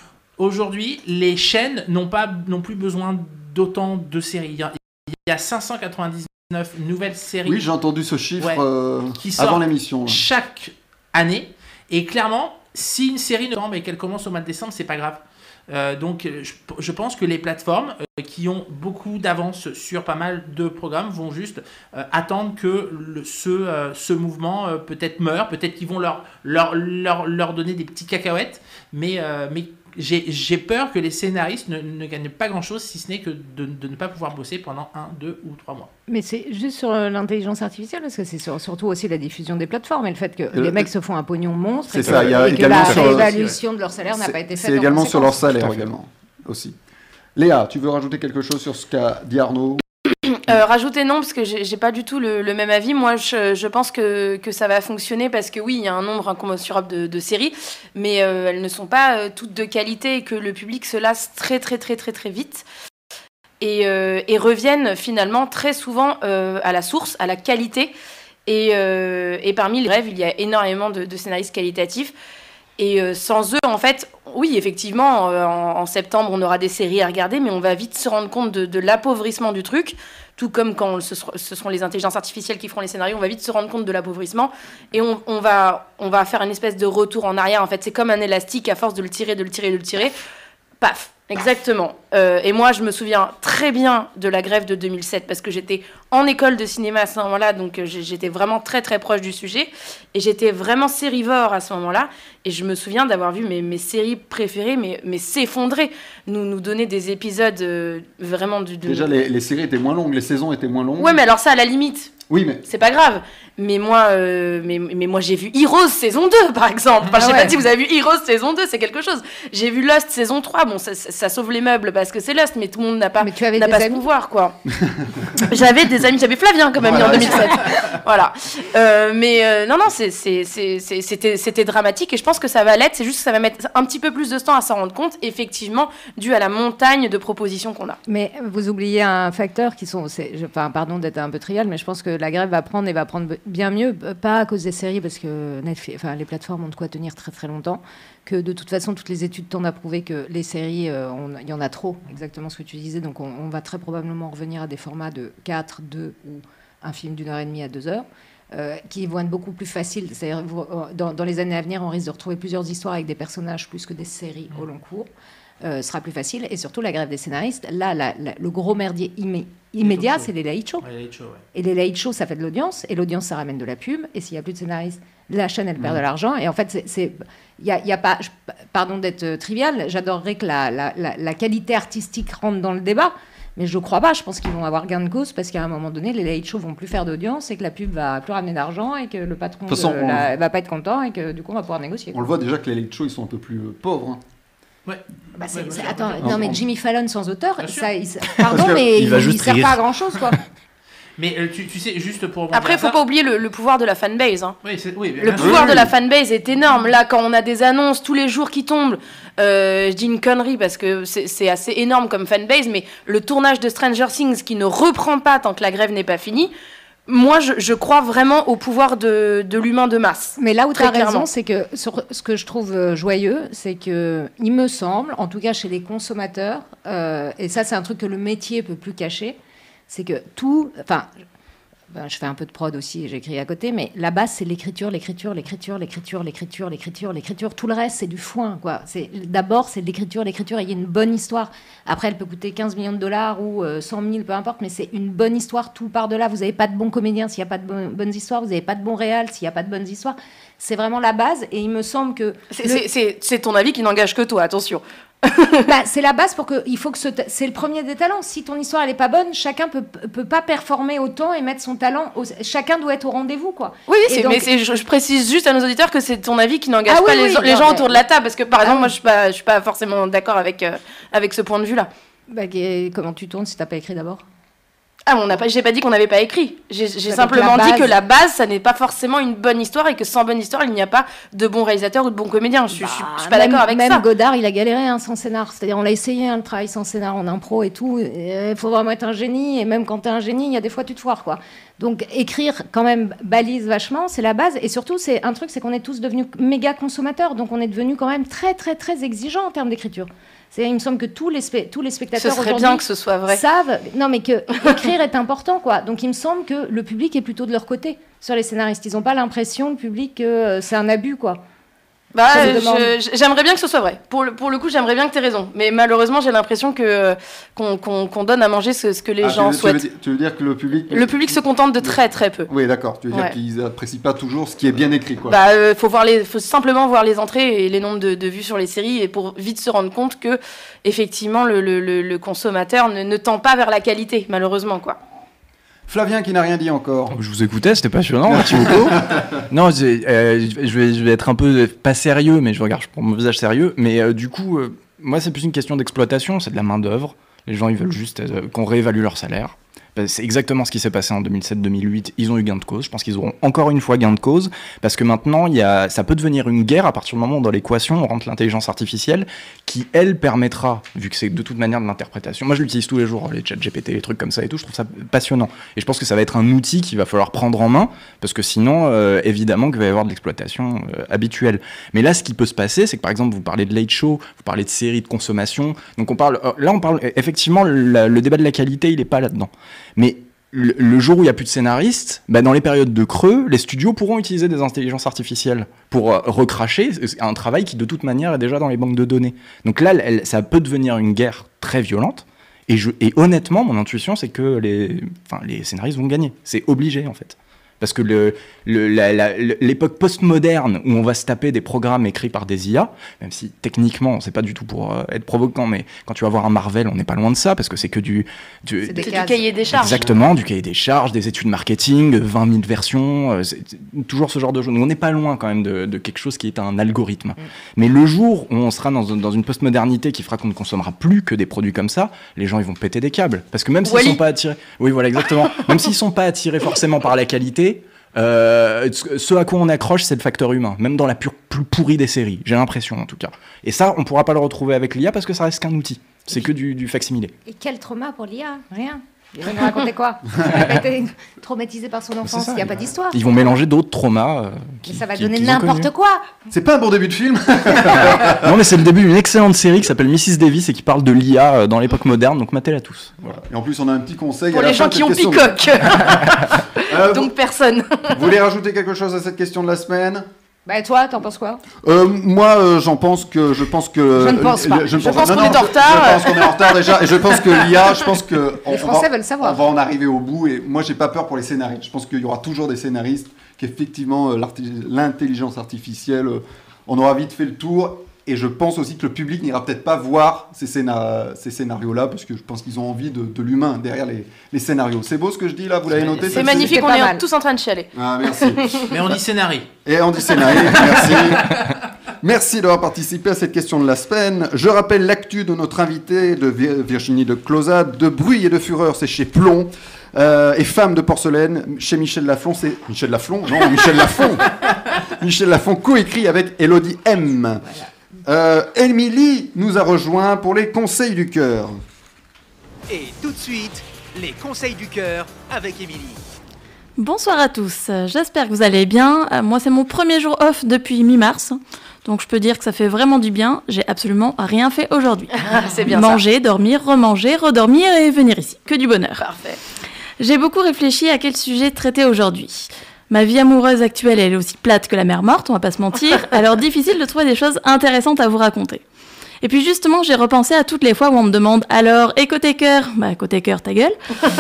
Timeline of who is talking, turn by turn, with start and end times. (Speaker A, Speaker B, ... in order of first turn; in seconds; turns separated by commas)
Speaker A: 0.4-7.6, Speaker B: 7.5-10.2, Speaker A: 9.2-35.9, Speaker C: 36.1-45.5, Speaker B: 40.5-40.9, Speaker B: 41.9-43.3, Speaker A: 42.7-43.5, Speaker B: 44.1-46.8, Speaker D: 45.6-45.9, Speaker B: 47.4-49.8, Speaker E: 50.3-62.6, Speaker E: 63.6-67.9, Speaker E: 68.5-72.1, Speaker E: 72.8-90.1, Speaker E: 90.8-109.1, Speaker B: 108.8-111.2, Speaker E: 111.0-112.1, Speaker B: 112.3-112.7, Speaker E: 112.7-124.6, Speaker C: 117.2-117.6, Speaker C: 123.2-124.1, Speaker B: 124.9-125.3, Speaker E: 125.4-138.0, Speaker B: 126.8-127.6, Speaker C: 138.1-165.1, Speaker C: 165.6-170.8, Speaker A: 169.8-170.3, Speaker A: 170.8-171.4, Speaker C: 171.5-192.2, Speaker B: 189.7-190.3, Speaker B: 192.1-194.2, Speaker A: 194.8-196.5, Speaker C: 195.3-200.4, Speaker B: 196.2-196.6, Speaker A: 197.6-197.9, Speaker B: 198.5-198.8, Speaker D: 198.9-199.8, Speaker A: 201.2-203.0, Speaker E: 202.5-204.6, Speaker A: 204.6-205.6, Speaker E: 205.3-216.5, Speaker B: 205.4-205.9, Speaker E: 217.1-221.3, Speaker C: 220.4-229.4, Speaker C: 229.9-231.1, Speaker C: 231.9-252.8, Speaker E: 252.5-255.6, Speaker C: 255.7-264.5, Speaker E: 263.9-271.9, Speaker C: 266.9-268.0, Speaker C: 268.6-268.9, Speaker C: 272.3-274.2, Speaker E: 275.1-284.1, Speaker C: 277.1-277.9, Speaker C: 282.7-311.4, Speaker E: 302.2-303.4, Speaker E: 312.1-319.8, Speaker C: 312.3-312.9, Speaker B: 319.2-325.4, Speaker E: 320.9-322.5, Speaker E: 325.3-335.0, Speaker B: 335.9-337.2, Speaker D: 337.1-409.1, Speaker B: 338.3-339.3, Speaker C: 408.8-409.5, Speaker E: 409.0-410.0, Speaker D: 409.7-437.3, Speaker E: 423.8-424.2, Speaker C: 437.5-443.2, Speaker D: 442.3-445.9, Speaker C: 444.8-446.3, Speaker B: 446.5-448.6, Speaker D: 448.2-453.3, Speaker B: 453.3-456.2, Speaker E: 454.5-458.2, Speaker B: 456.8-457.3, Speaker B: 458.1-460.3, Speaker C: 460.7-461.6, Speaker B: 461.8-486.9, Speaker C: 464.1-465.5, Speaker E: 465.0-466.9, Speaker C: 468.7-469.6, Speaker A: 486.0-486.4, Speaker E: 486.3-488.9, Speaker C: 486.4-487.2, Speaker B: 487.9-489.1, Speaker A: 488.9-489.7, Speaker B: 489.9-491.6, Speaker B: 492.2-507.6, Speaker C: 507.6-507.9, Speaker B: 508.2-511.8, Speaker F: 512.9-516.2, Speaker G: 517.0-525.3, Speaker E: 525.4-526.2, Speaker G: 525.9-529.2, Speaker E: 529.2-529.6, Speaker G: 530.2-538.8, Speaker G: 539.4-544.0